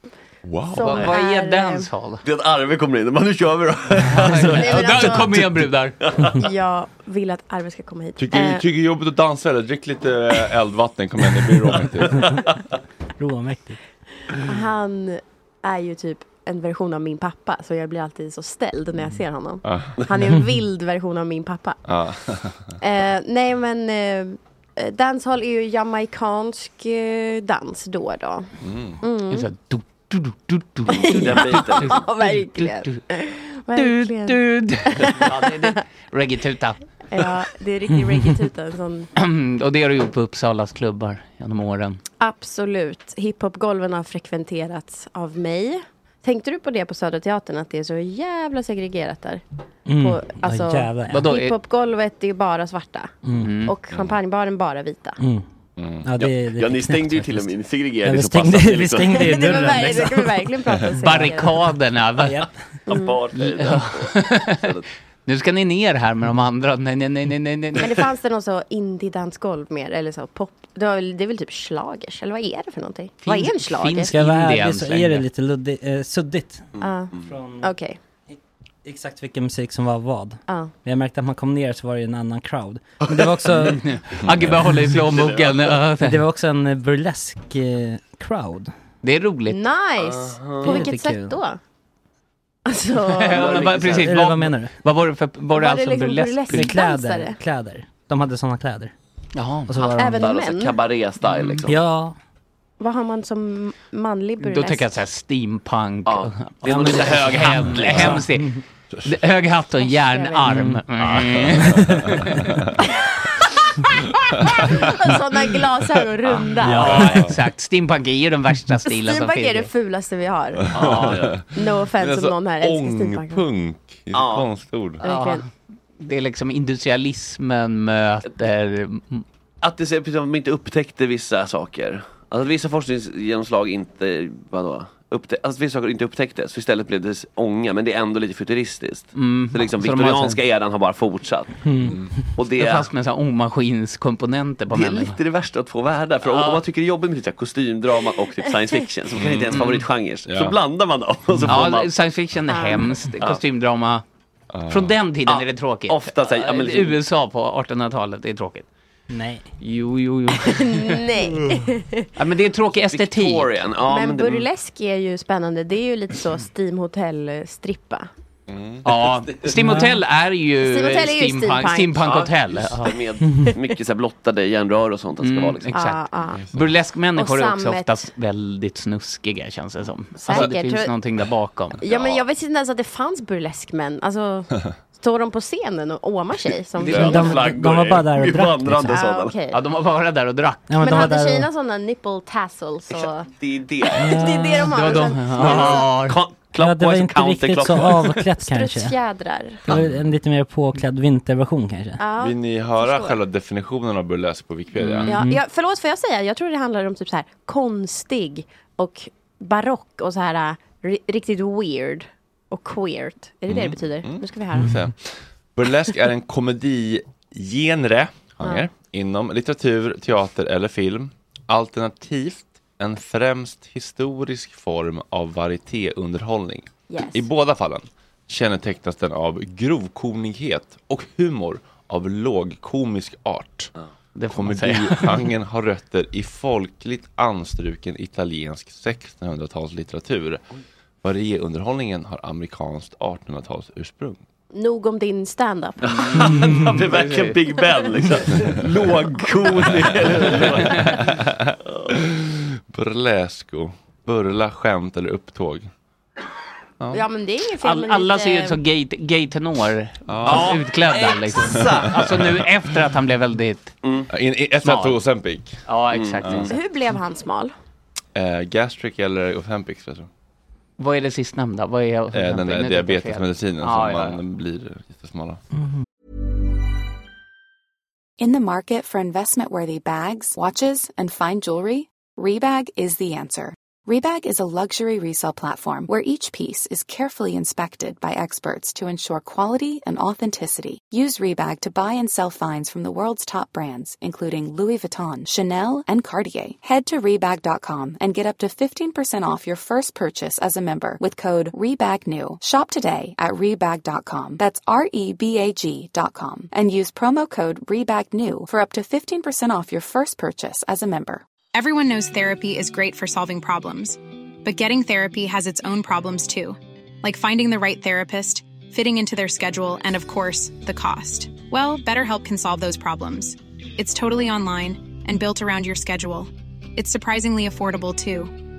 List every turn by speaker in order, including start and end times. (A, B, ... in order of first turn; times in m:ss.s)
0:00.5-0:00.9 A
0:00.7-0:01.9 B
0:00.8-0:02.2 C
0:02.2-0:06.4 D
0:04.0-0:05.9 C
0:04.4-0:05.3 B
0:06.4-0:08.6 B
0:08.2-0:12.3 A
0:12.0-0:12.6 D
0:13.2-0:13.8 E
0:14.4-0:21.8 B
0:19.6-0:20.0 A
0:21.9-0:22.7 A
0:22.8-0:29.5 B
0:28.6-0:29.0 A
0:29.3-0:33.0 C
0:30.9-0:35.7 B
0:31.0-0:32.1 D
0:33.7-0:36.8 C
0:35.1-0:35.6 D
0:37.1-0:39.1 B
0:37.9-0:38.3 E
0:39.2-0:42.0 C
0:42.2-0:49.4 B
0:49.9-0:51.2 E
0:49.9-0:53.1 B
0:51.1-0:51.5 C
0:53.2-0:53.5 E
0:53.4-0:53.7 C
0:53.6-0:55.2 B
0:55.2-0:55.4 E
0:55.8-0:56.0 A
0:56.0-0:57.5 E
0:56.2-0:59.8 D
0:58.0-1:00.3 E
0:59.1-1:01.6 B
1:01.0-1:02.5 C
1:02.2-1:02.5 E
1:02.9-1:04.8 D
1:02.9-1:03.2 B
1:03.4-1:04.7 C
1:05.2-1:08.0 C
1:07.8-1:14.1 B
1:13.2-1:15.2 C
1:14.1-1:17.7 E
1:16.8-1:17.2 D
1:16.8-1:18.0 B
1:18.3-1:23.8 E
1:23.2-1:23.6 D
1:23.6-1:26.2 C
1:25.1-1:25.7 D
1:26.0-1:28.7 E
1:29.0-1:29.6 C
1:29.5-1:31.6 B
1:30.0-1:30.8 D
1:30.6-1:31.4 E
1:32.6-1:33.6 B
1:33.2-1:36.7 C
1:33.3-1:34.2 D
1:34.0-1:34.7 E
1:35.5-1:37.4 B
1:36.5-1:38.9 E
1:39.3-1:39.7 C
1:39.7-1:40.3 E
1:39.7-1:40.8 B
1:39.8-1:41.8 D
1:41.3-1:41.6 C
1:41.6-1:42.2 E
1:42.8-1:44.9 B
1:44.4-1:52.3 C
1:46.0-1:48.2 D
1:47.8-1:48.4 E
1:49.8-1:50.5 B
1:50.5-1:50.8 E
1:51.0-1:52.7 A
1:52.8-1:53.5 B
1:54.2-1:54.8 A
1:54.4-1:57.1 B
1:56.6-1:59.7 C
1:56.7-1:57.1 E
1:57.0-1:57.4 A
1:58.9-2:03.4 B
2:00.7-2:01.4 D
2:00.8-2:01.4 A
2:02.0-2:05.0 A
2:04.1-2:04.5 D
2:05.0-2:05.4 B
2:05.0-2:09.2 C
2:09.6-2:21.6 D
2:19.2-2:20.4 C
2:21.6-2:22.0 E
2:22.4-2:22.9 D
2:22.5-2:25.2 C
2:24.7-2:31.9 D
2:26.2-2:26.6 C
2:29.2-2:29.6 A
2:29.5-2:29.8 C
2:30.3-2:30.6 A
2:31.5-2:34.0 C
2:32.5-2:33.0 B
2:34.5-2:34.9 A
2:34.7-2:38.7 C
2:35.3-2:37.0 D
2:39.1-2:39.4 E
2:39.6-2:41.0 C
2:40.4-2:42.1 B
2:42.2-2:43.6 C
2:42.8-2:44.5 D
2:43.8-2:48.1 B
2:48.5-2:48.8 A
2:48.8-2:53.0 C
2:48.9-2:49.7 D
2:49.6-2:49.9 E
2:50.6-2:52.0 B
2:52.0-2:55.8 D
2:55.2-3:01.8 C
2:55.7-2:56.4 B
2:56.3-2:56.6 A
2:57.1-2:57.9 B
3:00.2-3:00.9 B
3:01.8-3:07.5 B
3:01.8-3:02.2 D
3:06.7-3:09.4 D
3:06.9-3:09.0 E
3:08.8-3:09.6 B
3:09.5-3:11.0 C
3:10.7-3:11.5 E
3:10.8-3:13.3 B
3:12.9-3:14.2 D
3:13.9-3:15.7 B
3:14.0-3:14.7 E
3:14.7-3:16.2 C
3:14.8-3:18.2 D
3:15.4-3:15.7 E
3:16.6-3:19.0 E
3:18.4-3:19.6 B
3:19.6-3:22.0 E
3:22.0-3:23.2 B
3:22.2-3:25.1 A
3:24.8-3:25.2 C
3:25.0-3:34.8 B
3:33.5-3:53.7 A
3:46.9-3:47.2 B
3:54.2-3:55.3 C
3:54.3-4:00.4 A
4:01.0-4:04.2 A
4:04.5-4:06.4 B
4:05.8-4:11.0 D
4:05.9-4:08.2 C
4:09.8-4:15.7 A
4:11.6-4:12.0 D
4:16.9-4:18.6 B
4:17.6-4:23.7 C
4:20.1-4:20.6 A
4:20.2-4:22.0 D
4:21.6-4:22.3 A
4:23.8-4:24.1 D
4:24.1-4:25.6 A
4:24.6-4:25.0 C
4:25.6-4:26.5 C
4:25.9-4:26.5 D
4:26.5-4:27.5 B
4:28.1-4:30.1 A
4:30.8-4:34.2 C
4:32.1-4:35.4 A
4:38.2-5:11.2 F
5:11.5-5:28.3 G